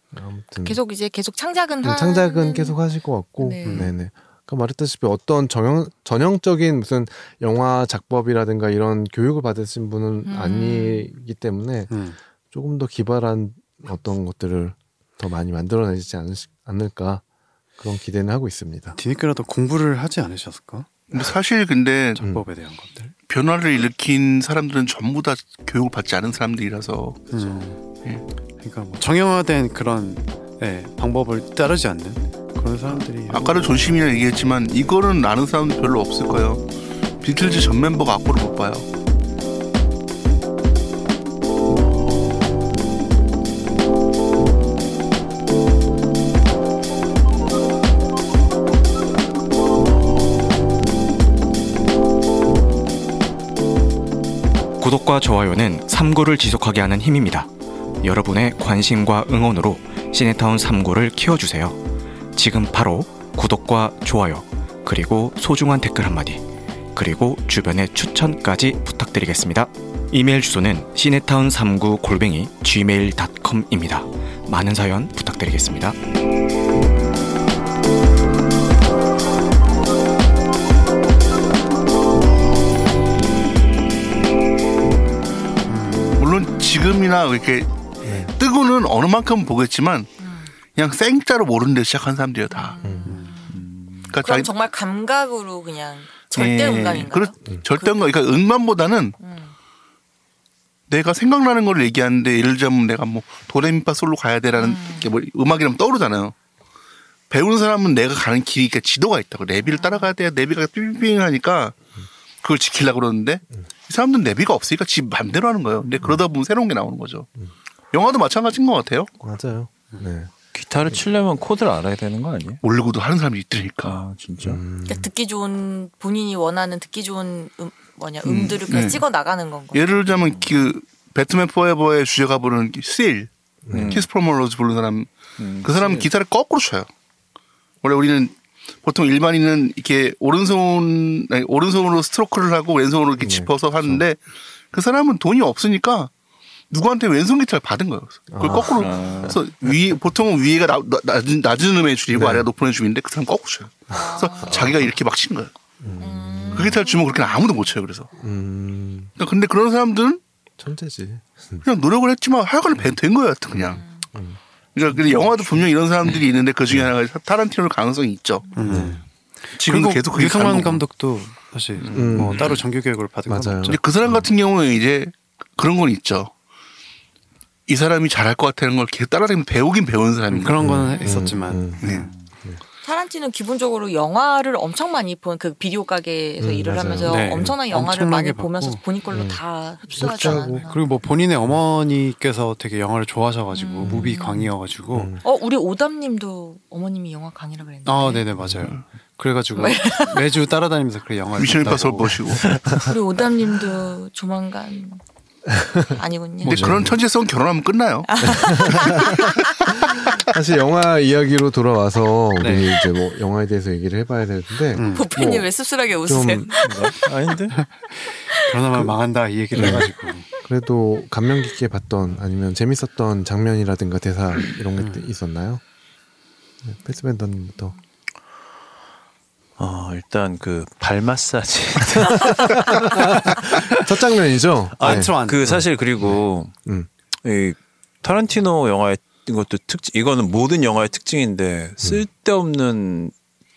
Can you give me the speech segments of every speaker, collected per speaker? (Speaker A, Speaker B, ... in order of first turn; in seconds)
Speaker A: 0.1-0.8, 1.8-11.9, 12.5-17.2, 17.8-18.9, 88.0-88.3, 92.8-93.2, 119.2-120.3, 124.4-125.1, 133.7-134.0, 143.2-144.0, 148.3-149.3, 152.1-152.5, 155.8-156.7, 158.2-159.1, 160.6-161.6, 163.5-165.7, 168.7-169.0, 171.9-172.6, 173.3-173.8, 180.6-181.8, 186.4-187.6, 189.1-190.6, 194.9-195.2, 205.5-205.9, 206.5-207.0, 208.2-209.2, 210.2-215.5, 216.1-216.6, 219.5-219.9, 220.4-225.6, 226.6-227.7, 232.1-236.9
Speaker B: 0.6-2.8, 3.4-3.9, 10.2-11.1, 85.4-85.7, 90.2-90.5, 92.5-93.6, 94.2-98.0, 99.2-99.5, 104.6-105.1, 109.7-110.1, 124.8-129.8, 153.9-154.5, 156.0-157.0, 182.8-190.8, 193.5-194.4, 195.2-198.2, 199.5-200.3, 202.8-205.0, 205.9-206.6, 208.1-209.8, 214.9-216.9
Speaker C: 3.6-3.9, 11.9-12.2, 18.9-20.9, 22.2-23.1, 27.3-27.8, 28.6-33.7, 85.7-86.2, 93.0-93.3, 168.5-169.0, 169.6-173.8, 180.3-181.8, 187.0-188.8, 190.0-195.1, 197.8-202.2, 212.4-212.7, 214.7-215.1, 217.5-220.3, 224.8-225.0, 234.8-235.6
Speaker D: 21.1-22.2, 23.3-27.4, 33.3-36.6, 37.2-38.9, 86.2-87.7, 88.3-90.1, 90.8-92.8, 94.1-94.5, 96.3-99.2, 100.9-106.3, 107.3-111.8, 112.4-117.3, 117.9-119.1, 122.6-124.0, 128.2-129.0, 129.7-133.3, 133.9-135.1, 135.6-136.9, 137.8-146.1, 146.7-155.5, 156.5-158.1, 159.2-160.2, 161.6-163.8, 164.7-168.5, 169.6-170.8, 173.7-176.3, 177.7-180.6, 181.8-182.1, 201.3-202.5, 206.4-209.0
Speaker E: 54.8-57.5, 58.0-61.8, 62.3-76.0
Speaker F: 93.5-94.1, 120.5-122.6, 123.8-124.6, 133.7-134.1, 135.4-136.1, 148.8-149.4, 171.8-172.6, 216.6-217.6, 229.6-233.0, 234.8-236.5, 237.2-243.1